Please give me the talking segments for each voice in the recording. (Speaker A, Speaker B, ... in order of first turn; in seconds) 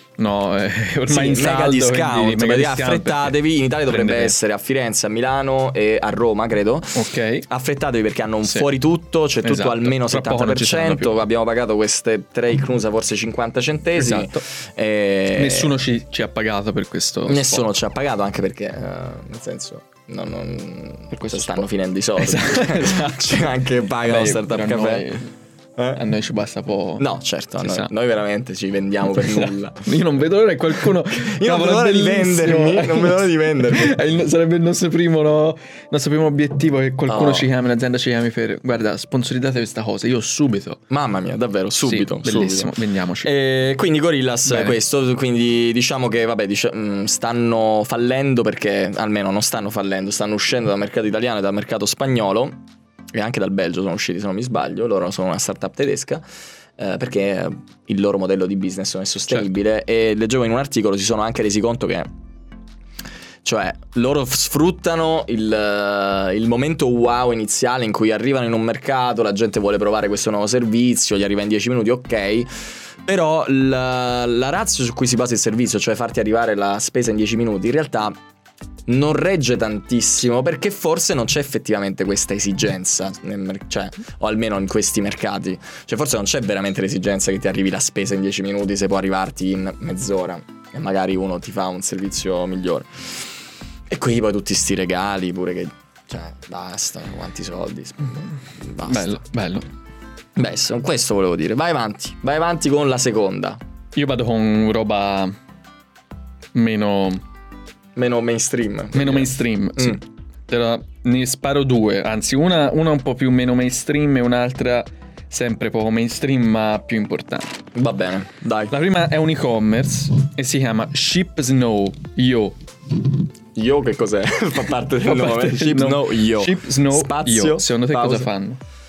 Speaker A: 0.2-3.4, 3.9-4.4, 7.0-7.5, 9.4-11.2, 14.0-14.4, 15.3-17.7, 21.1-21.7, 22.2-25.3, 26.0-27.1, 27.6-27.9, 29.1-40.8, 41.8-43.3, 44.5-44.8, 98.8-99.7, 104.0-105.3, 106.5-107.2, 108.9-117.6, 118.7-122.6, 125.0-128.6
Speaker B: 1.1-15.7, 17.3-25.1, 25.8-26.0, 27.0-29.9, 31.1-34.0, 37.1-37.5, 40.9-52.6, 53.1-56.2, 56.8-62.1, 63.4-78.2, 78.9-92.9, 93.9-99.2, 100.4-103.6, 108.0-110.0, 117.8-118.7, 123.5-128.3